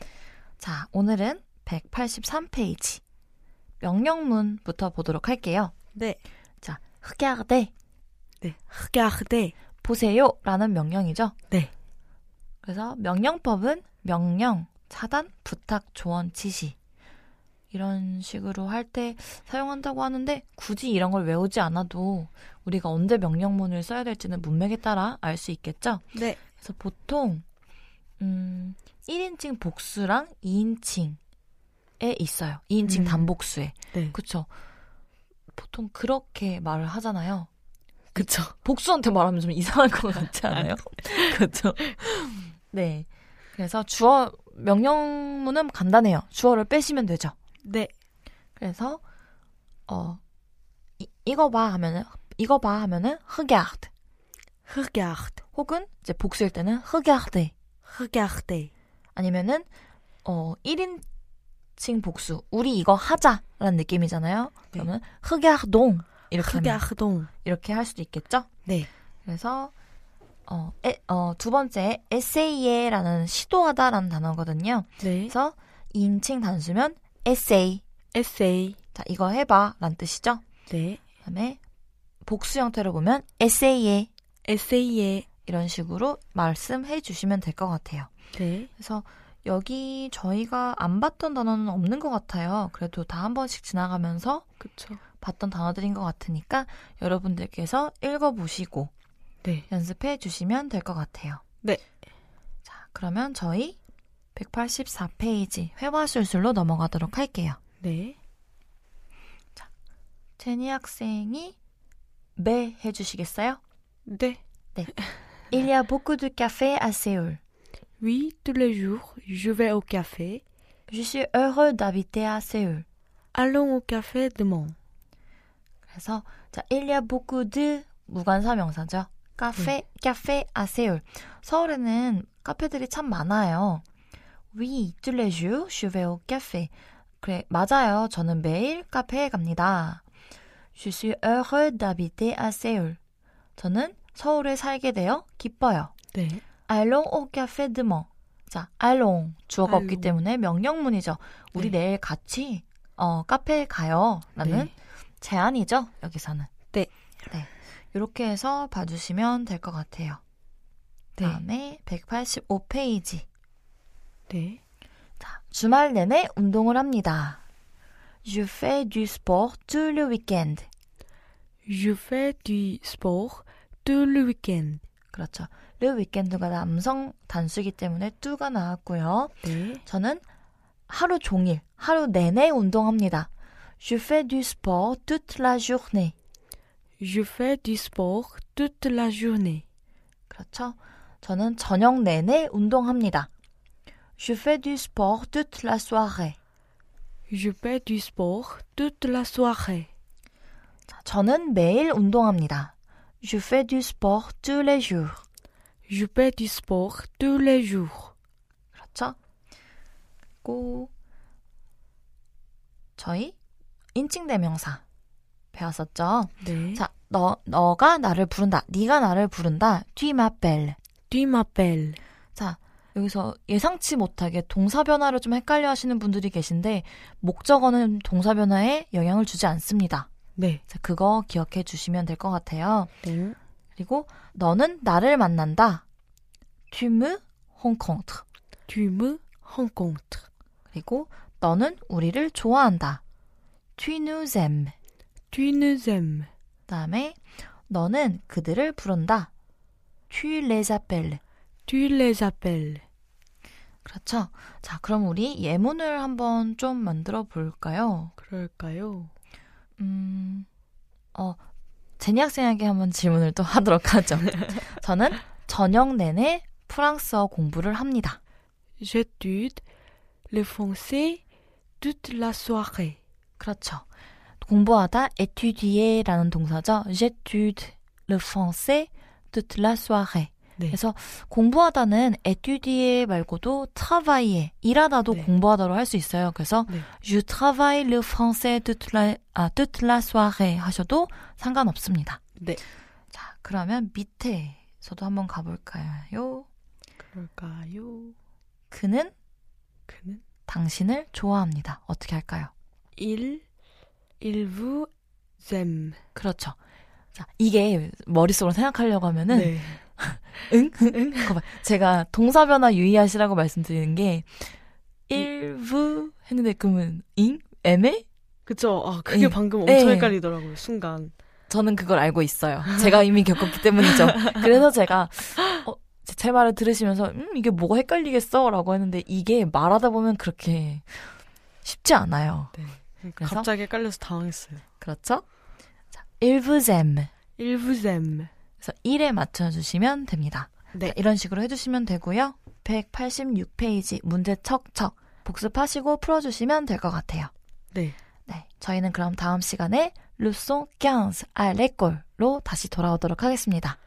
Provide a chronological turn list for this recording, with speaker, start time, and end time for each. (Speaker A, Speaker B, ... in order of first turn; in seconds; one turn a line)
Speaker A: 0.6-3.0
Speaker A: 3.8-5.7
Speaker B: 5.9-6.2
Speaker A: 6.6-7.7
Speaker B: 8.4-9.5
Speaker A: 9.8-11.3
Speaker A: 12.6-16.8
Speaker A: 17.7-27.4
Speaker B: 26.1-26.4
Speaker A: 28.2-31.2
Speaker A: 32.0-34.5
Speaker B: 32.9-33.3
Speaker A: 35.5-37.5
Speaker B: 38.1-38.5
Speaker A: 38.1-47.3
Speaker B: 47.6-47.9
Speaker A: 48.6-49.0
Speaker A: 49.9-50.2
Speaker A: 51.0-53.9
Speaker B: 54.7-55.4
Speaker A: 55.5-57.5
Speaker B: 57.9-58.7
Speaker A: 59.1-59.7
Speaker A: 60.2-61.0
Speaker A: 61.8-66.8
Speaker B: 66.4-67.3
Speaker A: 67.4-68.5
Speaker A: 69.2-69.7
Speaker A: 70.5-77.8
Speaker B: 75.0-75.3
Speaker B: 78.1-78.8
Speaker A: 78.9-80.4
Speaker B: 80.7-81.0
Speaker A: 81.2-81.6
Speaker A: 82.2-84.1
Speaker B: 84.5-85.3
Speaker A: 85.5-88.1
Speaker B: 88.3-88.7
Speaker A: 88.8-94.4
Speaker B: 94.6-95.0
Speaker A: 95.2-98.9
Speaker A: 99.7-101.4
Speaker A: 102.6-103.8
Speaker A: 104.3-107.6
Speaker B: 107.8-108.2
Speaker A: 110.4-111.6
Speaker A: 112.3-113.6
Speaker B: 114.1-114.4
Speaker A: 115.5-117.4
Speaker B: 118.0-120.4
Speaker A: 120.9-122.8
Speaker B: 123.3-124.7
Speaker A: 125.9-133.8
Speaker A: 134.5-140.0
Speaker A: 140.8-143.0
Speaker A: 143.6-145.9
Speaker B: 146.1-146.4
Speaker A: 146.7-156.5
Speaker B: 149.7-150.2
Speaker B: 154.4-154.7
Speaker A: 157.3-160.2
Speaker A: 161.2-163.2
Speaker B: 164.3-164.6
Speaker A: 165.2-167.4
Speaker A: 168.2-170.7
Speaker B: 171.6-174.8
Speaker A: 175.1-180.2
Speaker B: 179.4-179.8
Speaker A: 180.9-183.3
Speaker A: 183.8-186.1
Speaker B: 187.0-189.6
Speaker A: 190.3-193.3
Speaker A: 194.2-196.4
Speaker B: 197.3-199.9
Speaker A: 200.9-205.2
Speaker B: 205.9-208.1
Speaker A: 208.8-209.2
Speaker A: 210.4-210.9
Speaker A: 213.0-213.3
Speaker A: 213.9-214.8
Speaker A: 215.5-220.8
Speaker B: 216.4-216.8
Speaker B: 221.1-222.0
Speaker A: 222.3-230.1
Speaker B: 230.3-230.6
Speaker A: 230.7-232.9
Speaker B: 233.0-233.4
Speaker A: 233.8-235.8
Speaker A: 236.7-238.2
Speaker B: 238.7-240.2
Speaker A: 240.7-243.0
Speaker A: 243.8-244.7
Speaker B: 245.3-246.3
Speaker A: 246.7-249.3
Speaker A: 250.1-251.2
Speaker B: 251.7-252.8
Speaker A: 253.8-258.1
Speaker B: 258.2-259.1
Speaker A: 259.8-260.5
Speaker A: 262.0-268.2
Speaker B: 268.8-269.6
Speaker B: 270.3-271.2
Speaker B: 271.8-273.0
Speaker A: 273.4-273.9
Speaker A: 274.4-292.2
Speaker B: 292.4-292.6
Speaker A: 293.1-296.5
Speaker B: 297.1-298.1
Speaker A: 298.7-299.1
Speaker B: 299.9-300.2
Speaker A: 300.5-302.5
Speaker B: 302.9-303.4
Speaker B: 304.2-304.9
Speaker B: 305.4-306.0
Speaker A: 306.1-306.6
Speaker A: 307.1-314.5
Speaker B: 309.3-309.8
Speaker B: 310.9-311.3
Speaker A: 315.1-318.1
Speaker B: 318.5-321.1
Speaker A: 319.1-320.1
Speaker A: 321.5-332.5
Speaker B: 332.5-334.6
Speaker A: 333.2-333.5
Speaker A: 334.8-335.2
Speaker A: 335.9-337.1
Speaker B: 337.4-338.3
Speaker A: 338.6-347.3
Speaker A: 348.3-353.8